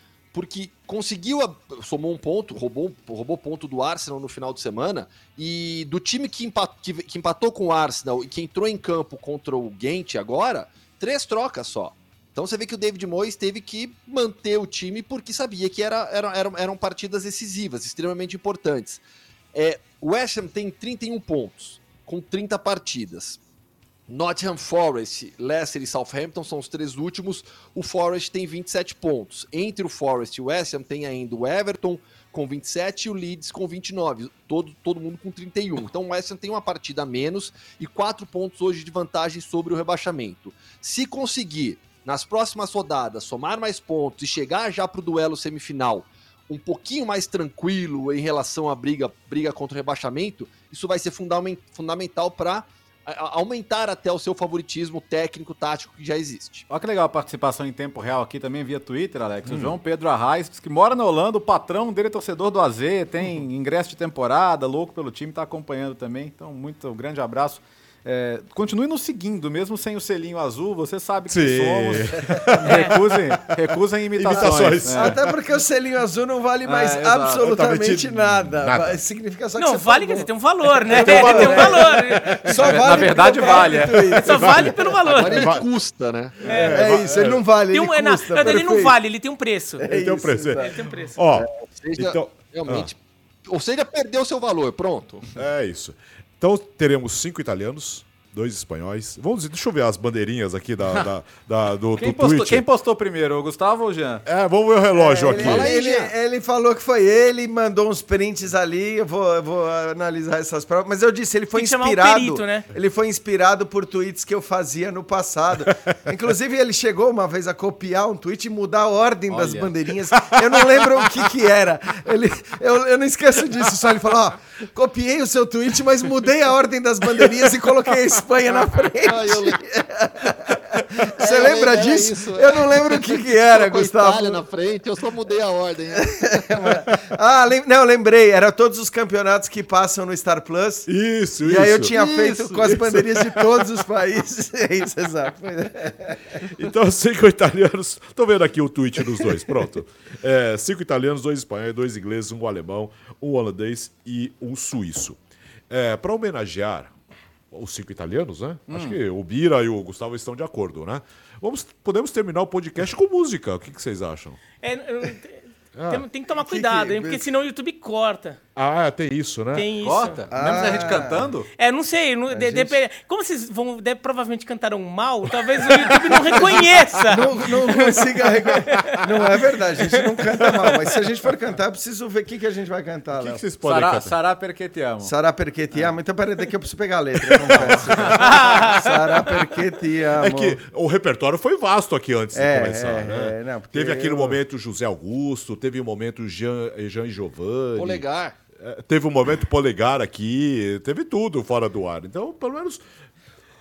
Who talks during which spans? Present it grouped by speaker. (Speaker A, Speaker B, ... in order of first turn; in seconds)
Speaker A: 0.3-19.0, 19.5-23.4, 24.1-56.6, 85.0-86.7, 91.8-95.4, 105.3-106.1, 129.0-129.6, 131.1-136.5, 197.8-198.4
Speaker B: 56.7-75.2, 76.6-77.5, 82.6-84.2, 102.0-104.2, 119.3-119.7, 142.0-142.5, 158.7-159.0, 169.8-171.5, 183.6-185.1, 187.5-188.3
Speaker C: 71.3-73.0, 74.2-75.3, 77.4-79.0, 81.1-81.4, 84.2-85.7, 86.4-87.4, 89.8-92.9, 95.3-102.6, 104.2-105.7, 120.3-120.8, 140.9-141.9, 142.7-143.4, 146.5-155.2, 155.7-156.9, 157.5-164.4, 165.7-166.0, 168.6-169.7, 183.1-184.2, 190.2-198.0, 198.6-202.8
Speaker D: 72.7-72.9, 79.6-82.8, 84.2-85.6, 86.4-86.9, 87.7-89.9, 90.6-91.2, 111.5-112.7, 164.6-168.4, 169.5-170.2, 171.6-179.0, 188.2-189.4
Speaker E: 74.3-85.0, 86.6-89.0, 89.8-91.4, 104.9-134.4, 136.0-140.9, 141.4-146.5, 166.4-167.2, 170.3-171.3, 172.3-172.8, 176.3-183.4, 185.0-190.6, 192.3-194.4